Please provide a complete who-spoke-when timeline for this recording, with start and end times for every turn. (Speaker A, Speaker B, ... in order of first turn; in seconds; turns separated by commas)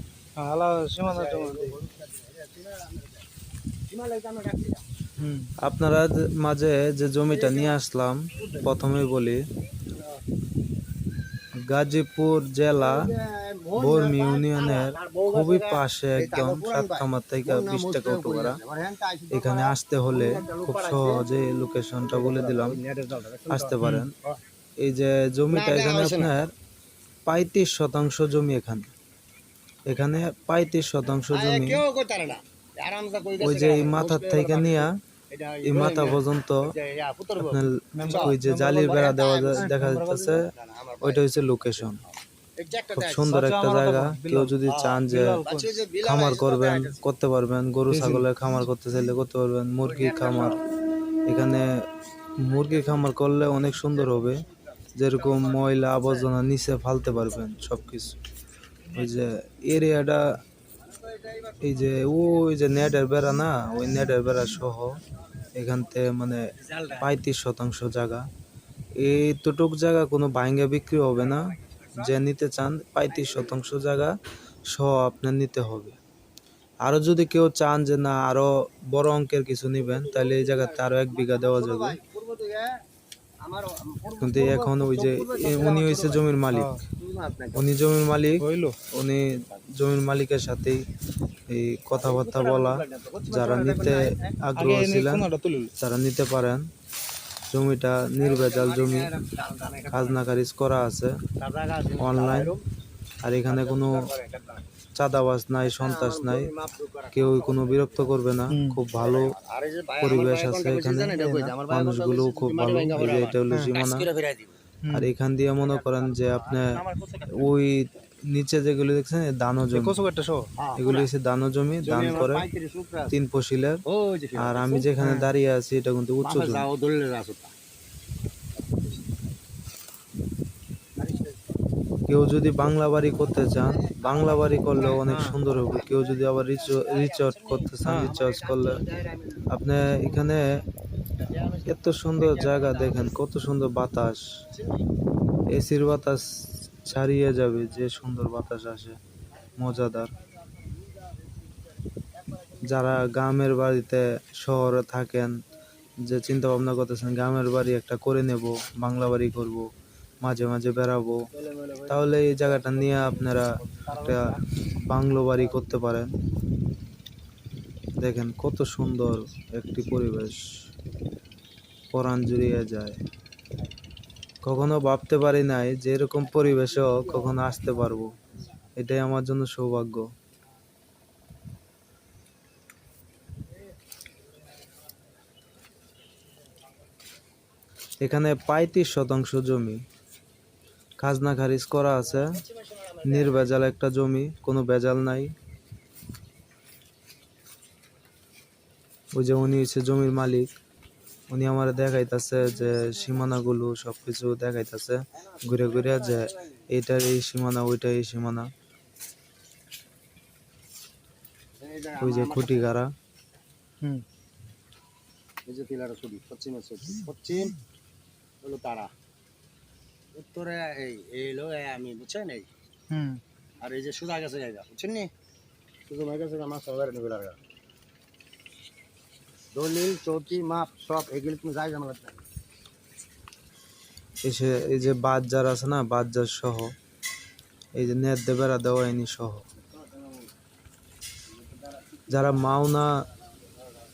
Speaker A: 0.4-1.8, Speaker B: 1.0-3.3, Speaker B: 3.9-4.8, Speaker A: 5.2-5.5, Speaker C: 5.6-9.4, Speaker B: 7.3-7.8, Speaker B: 8.4-8.7, Speaker C: 11.7-13.0, Speaker B: 12.7-21.3, Speaker C: 13.8-18.6, Speaker C: 19.3-22.8, Speaker B: 22.0-24.4, Speaker C: 23.5-24.1, Speaker C: 24.8-26.5, Speaker B: 25.5-26.4, Speaker C: 27.3-28.9, Speaker C: 29.9-31.8, Speaker B: 31.3-39.7, Speaker C: 33.4-34.9, Speaker C: 35.6-36.7, Speaker C: 37.4-40.5, Speaker A: 38.0-39.0, Speaker A: 39.5-40.4, Speaker B: 40.3-43.4, Speaker C: 41.0-42.0, Speaker C: 43.0-45.4, Speaker A: 43.3-44.6, Speaker B: 44.7-47.0, Speaker A: 45.1-45.8, Speaker C: 46.0-50.6, Speaker A: 47.9-48.3, Speaker B: 49.8-50.7, Speaker C: 51.3-51.7, Speaker C: 52.4-54.4, Speaker B: 53.8-54.6, Speaker C: 55.0-58.2, Speaker B: 55.1-56.3, Speaker C: 58.9-60.3, Speaker B: 60.8-62.5, Speaker C: 61.6-65.0, Speaker B: 65.3-65.7, Speaker C: 65.5-68.3, Speaker B: 66.6-67.1, Speaker C: 69.0-74.2, Speaker B: 71.2-72.1, Speaker B: 73.1-73.8, Speaker C: 74.7-76.0, Speaker C: 76.8-82.0, Speaker B: 79.8-82.7, Speaker B: 83.4-86.4, Speaker C: 84.2-86.8, Speaker A: 86.5-86.8, Speaker B: 87.0-87.7, Speaker C: 87.5-90.8, Speaker A: 88.4-88.8, Speaker C: 91.5-96.7, Speaker B: 91.9-94.4, Speaker A: 94.6-95.7, Speaker C: 97.5-99.1, Speaker B: 98.2-100.3, Speaker C: 99.9-101.2, Speaker B: 101.4-102.6, Speaker C: 102.0-102.5, Speaker C: 103.2-104.1, Speaker B: 103.5-104.7, Speaker C: 105.0-106.5, Speaker B: 105.6-108.3, Speaker C: 107.1-109.4, Speaker A: 108.5-108.8, Speaker B: 108.9-114.6, Speaker C: 110.0-114.1, Speaker A: 111.2-111.5, Speaker A: 114.8-115.1, Speaker C: 114.9-116.8, Speaker B: 115.4-117.6, Speaker C: 117.3-120.0, Speaker A: 119.7-120.5, Speaker B: 120.6-121.1, Speaker C: 120.8-122.5, Speaker B: 121.8-123.2, Speaker C: 123.1-123.8, Speaker B: 123.9-124.9, Speaker C: 124.4-126.7, Speaker A: 125.0-125.3, Speaker B: 126.2-127.5, Speaker B: 128.6-129.2, Speaker B: 131.0-131.5, Speaker C: 132.1-138.8, Speaker B: 133.3-140.6, Speaker A: 137.8-138.1, Speaker C: 139.5-140.6, Speaker B: 141.2-143.2, Speaker C: 141.7-144.3, Speaker B: 144.5-144.9, Speaker C: 145.5-149.0, Speaker B: 149.5-152.9, Speaker C: 149.6-150.1, Speaker C: 152.7-155.3, Speaker C: 156.1-159.7, Speaker C: 160.2-161.2, Speaker B: 161.3-164.4, Speaker C: 161.9-164.3, Speaker C: 164.8-166.1, Speaker B: 165.4-165.8, Speaker C: 168.0-170.4, Speaker C: 171.9-173.0, Speaker C: 174.4-178.2, Speaker B: 176.2-178.5, Speaker C: 178.8-180.1, Speaker C: 188.0-189.8, Speaker C: 191.0-192.4, Speaker B: 192.1-193.6, Speaker C: 193.1-195.3, Speaker C: 199.1-200.5, Speaker C: 201.3-208.5, Speaker B: 202.5-203.1, Speaker B: 205.1-206.6, Speaker B: 211.6-212.7, Speaker C: 212.0-212.9, Speaker B: 215.5-217.6, Speaker B: 218.4-218.9, Speaker B: 220.2-222.5, Speaker A: 222.9-223.2, Speaker B: 223.6-225.1, Speaker B: 225.9-227.4, Speaker B: 229.5-232.2, Speaker C: 234.2-236.7, Speaker C: 237.8-239.4, Speaker B: 239.6-240.3, Speaker B: 241.3-243.6, Speaker C: 242.1-243.0